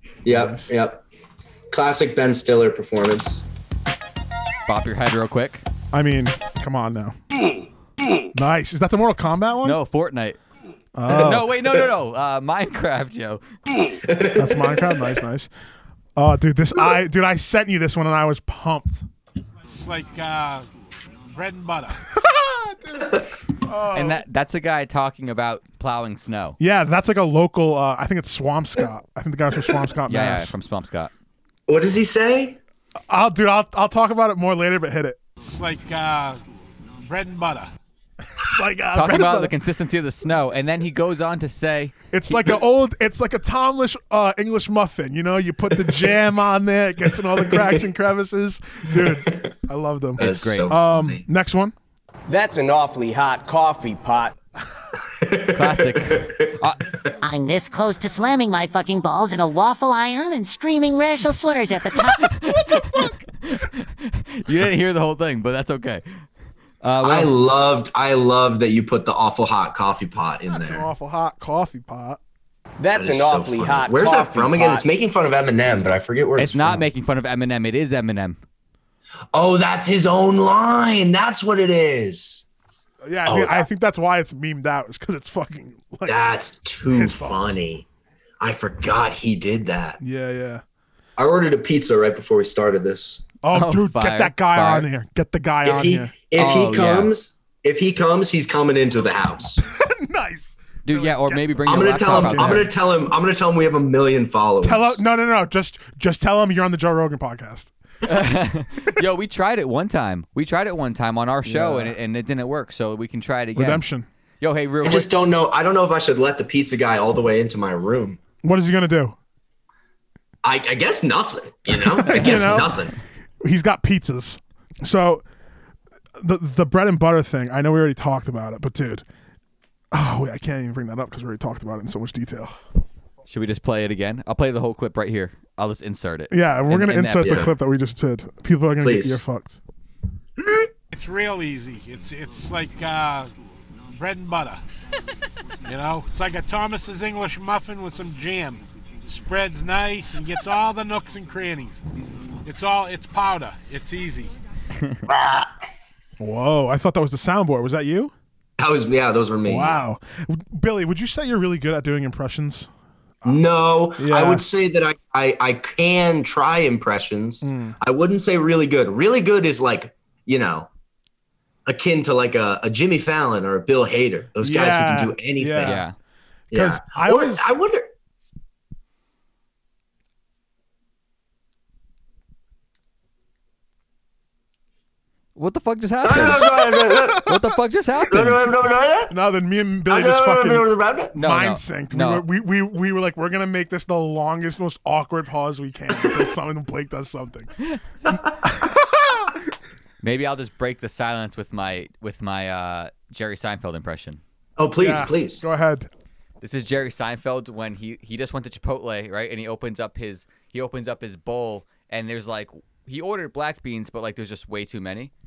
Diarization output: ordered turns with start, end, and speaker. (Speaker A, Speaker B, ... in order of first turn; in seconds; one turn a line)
Speaker A: 0.2-1.0
Speaker B: 0.3-0.7
Speaker A: 1.7-3.5
Speaker C: 4.7-5.6
Speaker B: 5.9-7.2
Speaker B: 8.3-9.8
Speaker C: 9.6-10.4
Speaker B: 11.0-11.5
Speaker C: 11.1-13.4
Speaker A: 14.0-15.0
Speaker B: 14.3-15.5
Speaker B: 16.2-19.1
Speaker D: 19.7-20.7
Speaker D: 21.3-22.0
Speaker B: 22.2-24.2
Speaker C: 23.9-26.6
Speaker B: 26.6-30.5
Speaker C: 30.1-31.1
Speaker A: 31.7-32.6
Speaker B: 33.1-35.2
Speaker D: 35.4-36.4
Speaker D: 37.0-37.7
Speaker B: 38.4-39.5
Speaker C: 38.9-42.4
Speaker B: 42.1-51.7
Speaker A: 45.7-46.1
Speaker A: 47.4-47.9
Speaker A: 48.9-49.5
Speaker C: 50.2-50.7
Speaker A: 50.2-51.2
Speaker E: 52.3-54.4
Speaker A: 55.1-56.5
Speaker C: 55.5-56.8
Speaker F: 57.2-62.3
Speaker C: 62.0-66.0
Speaker B: 62.7-63.2
Speaker C: 66.8-67.3
Speaker A: 67.0-70.9
Speaker B: 70.5-72.2
Speaker E: 72.8-74.8
Speaker A: 73.0-76.9
Speaker C: 76.4-78.4
Speaker A: 79.3-82.5
Speaker B: 83.0-86.2
Speaker A: 83.2-83.7
Speaker A: 86.1-87.9
Speaker B: 86.9-87.6
Speaker A: 88.4-90.0
Speaker B: 90.0-90.6
Speaker A: 91.2-93.2
Speaker B: 93.4-96.1
Speaker C: 93.5-94.9
Speaker A: 95.6-99.7
Speaker C: 96.4-97.1
Speaker B: 99.7-102.7
Speaker C: 100.8-102.7
Speaker A: 101.7-105.0
Speaker B: 104.6-107.7
Speaker C: 108.0-113.9
Speaker B: 111.5-111.9
Speaker B: 113.5-114.1
Speaker C: 114.4-115.1
Speaker A: 114.8-118.2
Speaker B: 118.4-119.2
Speaker A: 120.4-122.9
Speaker B: 121.7-122.8
Speaker B: 123.4-125.2
Speaker B: 126.2-129.1
Speaker B: 129.9-132.6
Speaker C: 133.3-137.5
Speaker B: 136.3-139.6
Speaker A: 137.2-137.5
Speaker A: 138.8-139.2
Speaker A: 140.4-140.7
Speaker D: 140.9-143.3
Speaker D: 143.9-144.6
Speaker D: 145.7-151.8
Speaker D: 152.4-154.4
Speaker A: 155.1-155.5
Speaker B: 156.2-158.1
Speaker A: 158.6-159.8
Speaker B: 159.5-162.7
Speaker A: 163.2-170.7
Speaker B: 163.9-164.4
Speaker B: 167.4-167.8
Speaker A: 171.7-175.8
Speaker B: 174.4-175.8
Speaker C: 175.6-175.9
Speaker A: 176.5-177.9
Speaker B: 176.5-177.5
Speaker C: 185.4-188.5
Speaker A: 186.0-187.3
Speaker B: 186.9-187.3
Speaker A: 188.1-189.1
Speaker B: 189.1-197.5
Speaker A: 189.9-191.2
Speaker C: 191.2-192.2
Speaker B: 198.4-199.4
Speaker C: 200.0-204.2
Speaker A: 204.6-205.4
Speaker B: 204.8-205.9
Speaker C: 206.4-215.1